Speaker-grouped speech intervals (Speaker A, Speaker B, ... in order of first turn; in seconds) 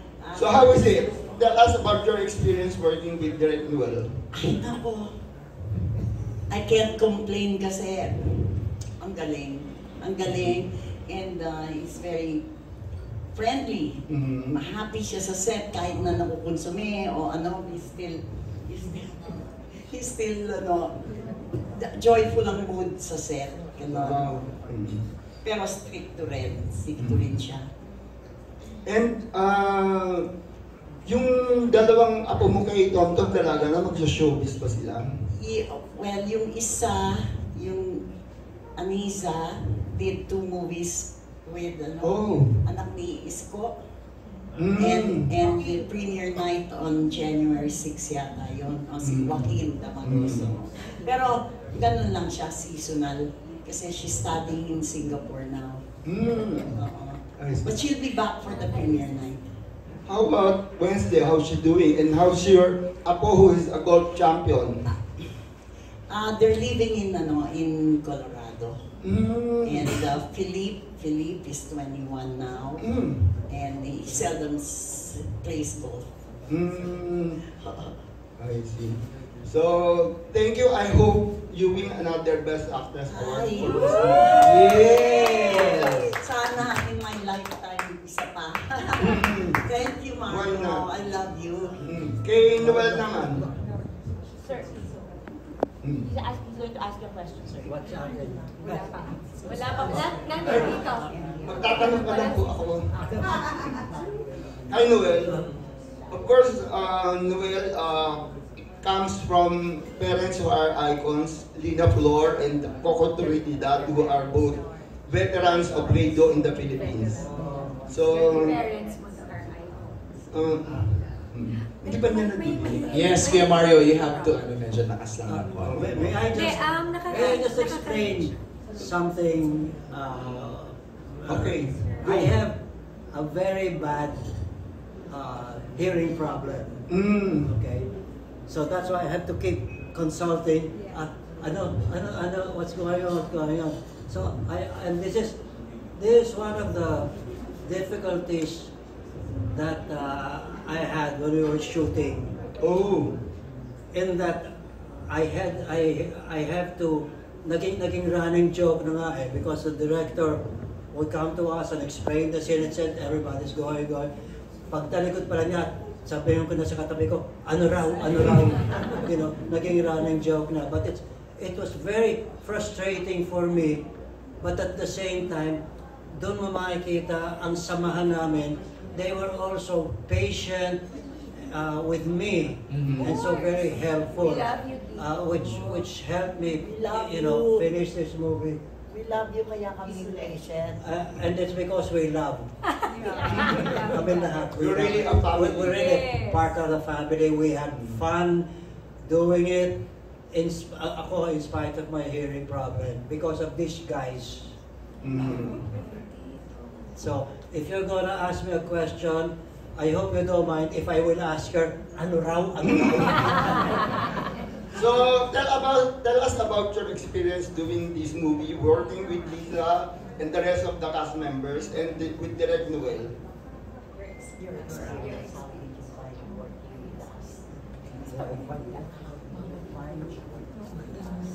Speaker A: 0.2-1.1, 4.3-5.1, 6.5-12.4, 13.3-20.9, 21.7-24.3, 25.4-27.6, 35.3-38.0, 38.8-43.8, 44.8-55.8, 56.7-59.4, 66.1-68.8, 69.6-72.8, 73.5-76.0, 77.5-77.9, 83.1-91.8, 96.1-97.6, 101.2-102.0, 186.6-187.1, 188.9-190.8, 224.4-230.8
Speaker B: 0.3-4.1, 14.1-14.6, 23.9-25.0, 27.0-27.3, 28.9-30.2, 31.1-35.2, 42.0-42.6, 44.5-45.3, 49.0-50.5, 56.0-56.8, 57.4-57.8, 60.0-64.9, 69.0-70.0, 72.8-73.3, 76.5-77.4, 78.4-84.8, 89.0-89.6, 90.3-90.8, 91.8-93.4, 95.8-96.1, 100.4-100.9, 101.4-103.0, 104.7-105.4, 106.1-108.3, 108.8-117.3, 117.9-118.6, 120.3-123.0, 125.6-126.0, 131.3-132.3, 136.9-137.5, 152.6-153.2, 193.3-193.8, 194.5-195.8, 197.7-198.0, 205.0-205.7, 212.6-213.0, 214.7-223.1
Speaker C: 84.4-85.8, 122.9-126.2, 182.7-183.2
Speaker D: 92.6-93.1, 97.6-100.9, 125.2-132.6, 133.1-134.2, 135.1-136.8, 137.4-137.9, 138.5-145.4, 145.9-147.1, 147.6-148.7, 149.5-152.3, 153.9-154.5, 155.1-160.4, 160.9-164.1, 164.7-173.8, 174.4-175.6, 176.1-180.8, 181.4-188.6, 190.8-192.5, 193.3-198.4, 199.0-199.8, 200.3-204.5, 206.9-214.0
Speaker E: 101.8-102.3, 118.1-119.7, 121.9-124.4, 126.2-128.3, 183.0-185.0, 193.1-194.3, 195.7-196.4